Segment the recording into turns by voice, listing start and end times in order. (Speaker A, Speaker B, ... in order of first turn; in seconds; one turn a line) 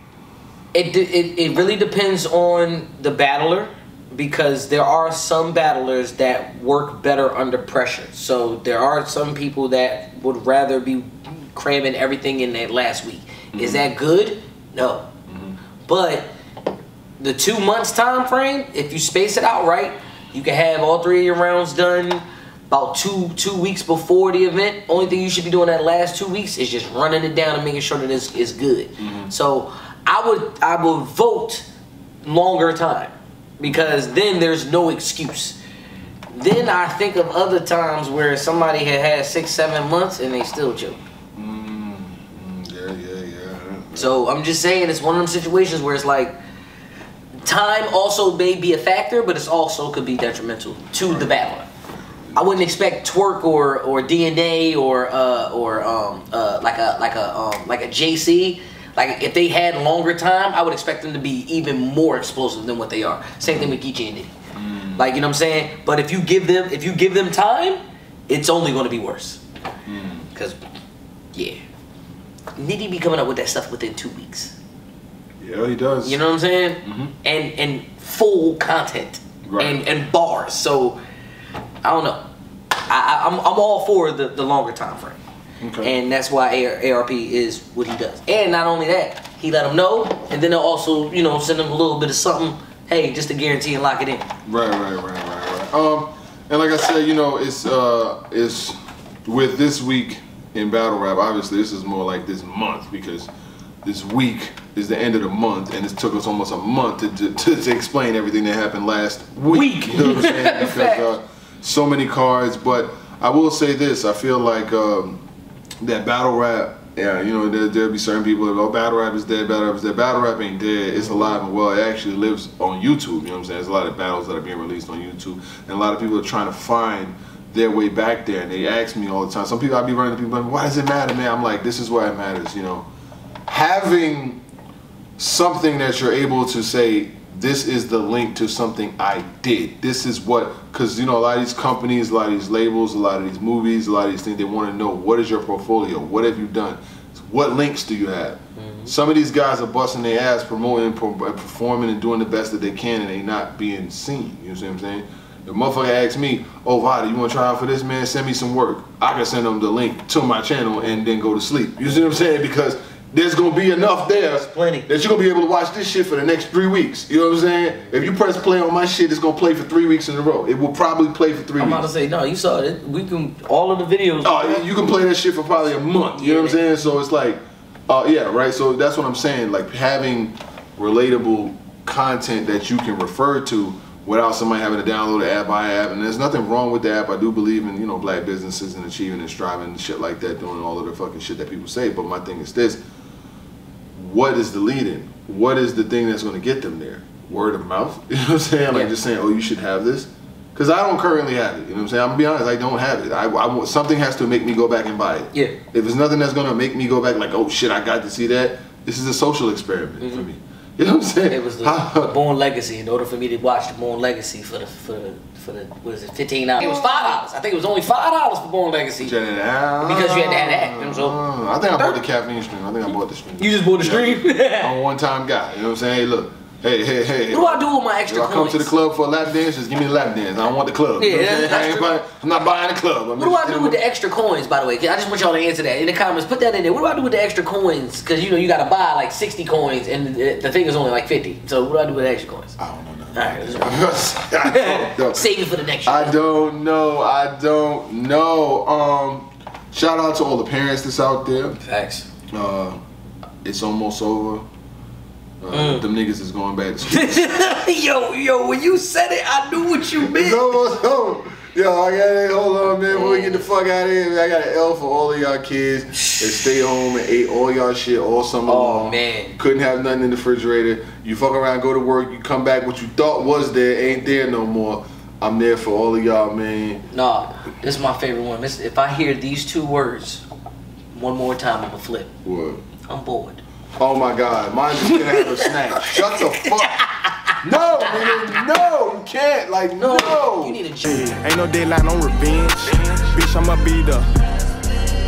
Speaker A: 0.7-15.1
Speaker B: 13.5-13.9
Speaker B: 15.3-15.6
Speaker A: 15.9-16.3
Speaker A: 17.2-31.6
Speaker B: 29.0-29.3
Speaker A: 32.2-35.6
Speaker A: 36.3-41.0
Speaker B: 41.4-44.2
Speaker A: 44.0-46.3
Speaker A: 47.4-51.6
Speaker B: 51.0-51.4
Speaker A: 52.3-64.3
Speaker B: 63.4-63.7
Speaker B: 64.5-65.1
Speaker A: 65.0-69.4
Speaker B: 69.8-70.3
Speaker A: 71.3-71.6
Speaker A: 72.5-74.5
Speaker B: 75.4-76.2
Speaker A: 76.0-81.0
Speaker B: 76.8-77.1
Speaker B: 79.5-79.8
Speaker A: 81.8-82.2
Speaker A: 82.8-85.2
Speaker B: 85.6-85.9
Speaker A: 85.8-94.3
Speaker B: 94.5-103.3
Speaker B: 103.8-115.2
Speaker A: 109.5-111.1
Speaker B: 115.8-132.8
Speaker B: 133.5-134.4
Speaker B: 135.2-171.9
Speaker A: 148.6-148.9
Speaker A: 164.3-164.9
Speaker A: 171.6-174.6
Speaker B: 174.2-192.8
Speaker A: 176.2-176.6
Speaker B: 193.9-212.1
Speaker A: 210.0-210.2
Speaker A: 211.3-219.1
Speaker B: 216.6-217.2
Speaker B: 219.0-233.8
Speaker A: 219.8-221.2
Speaker A: 223.4-224.7
Speaker A: 227.3-228.7
Speaker A: 231.0-231.9
Speaker A: 233.2-242.6
Speaker B: 242.6-245.3
Speaker A: 243.1-246.2
Speaker B: 245.8-251.6
Speaker A: 251.6-252.1
Speaker B: 252.3-252.8
Speaker B: 253.4-254.4
Speaker B: 255.4-257.5
Speaker A: 255.5-255.8
Speaker A: 256.9-260.5
Speaker B: 259.9-276.8
Speaker A: 262.9-263.4
Speaker A: 266.0-266.3
Speaker A: 268.4-269.4
Speaker A: 276.9-280.2
Speaker A: 280.9-282.1
Speaker B: 282.2-282.6
Speaker A: 282.9-283.4
Speaker B: 283.8-286.8
Speaker A: 284.9-288.4
Speaker B: 287.4-290.6
Speaker A: 289.9-291.1
Speaker C: 290.8-294.1